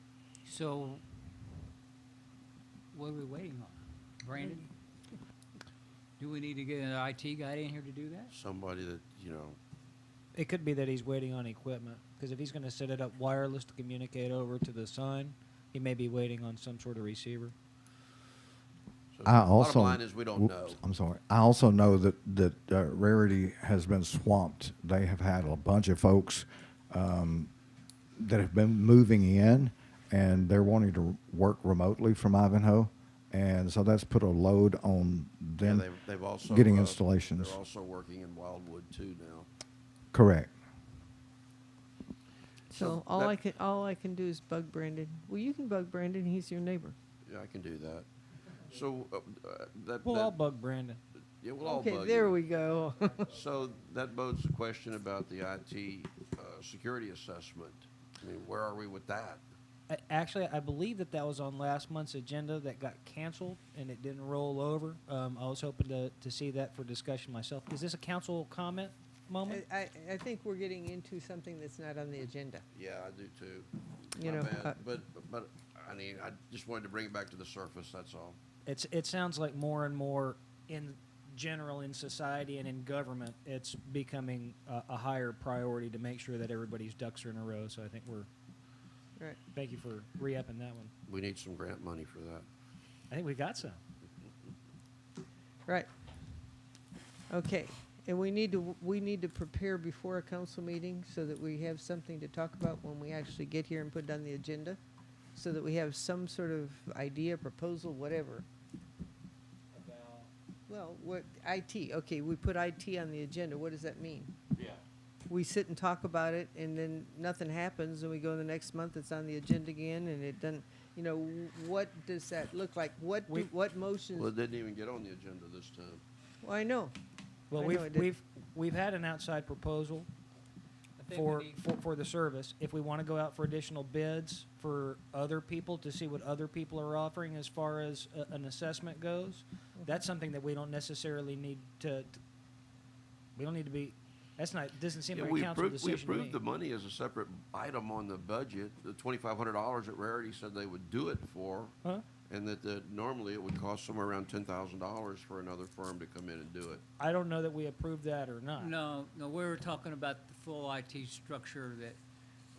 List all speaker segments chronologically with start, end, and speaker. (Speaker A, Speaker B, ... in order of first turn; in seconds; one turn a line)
Speaker A: 0.4-1.0
Speaker A: 2.9-4.7
Speaker A: 6.2-8.3
Speaker B: 8.3-9.6
Speaker C: 10.3-17.5
Speaker B: 19.1-20.8
Speaker D: 19.2-27.5
Speaker D: 28.2-35.9
Speaker B: 35.6-39.5
Speaker D: 36.4-37.6
Speaker D: 40.1-40.5
Speaker E: 42.7-46.9
Speaker B: 42.7-43.3
Speaker B: 47.2-48.1
Speaker B: 48.7-50.3
Speaker C: 50.0-51.0
Speaker B: 51.4-52.4
Speaker E: 51.6-53.3
Speaker B: 53.3-59.4
Speaker C: 59.9-69.6
Speaker E: 69.5-72.6
Speaker B: 72.7-78.4
Speaker E: 74.2-74.8
Speaker C: 78.7-88.3
Speaker C: 89.5-90.9
Speaker B: 91.1-92.5
Speaker C: 93.1-93.8
Speaker E: 97.3-104.8
Speaker E: 105.3-108.5
Speaker A: 109.8-110.2
Speaker E: 110.7-114.3
Speaker E: 115.3-124.3
Speaker B: 124.1-126.0
Speaker E: 126.4-126.9
Speaker C: 127.5-130.1
Speaker E: 127.5-128.1
Speaker A: 131.0-131.6
Speaker C: 131.1-142.2
Speaker C: 143.3-146.4
Speaker B: 145.1-151.8
Speaker B: 152.3-156.8
Speaker C: 157.0-158.7
Speaker A: 158.6-162.0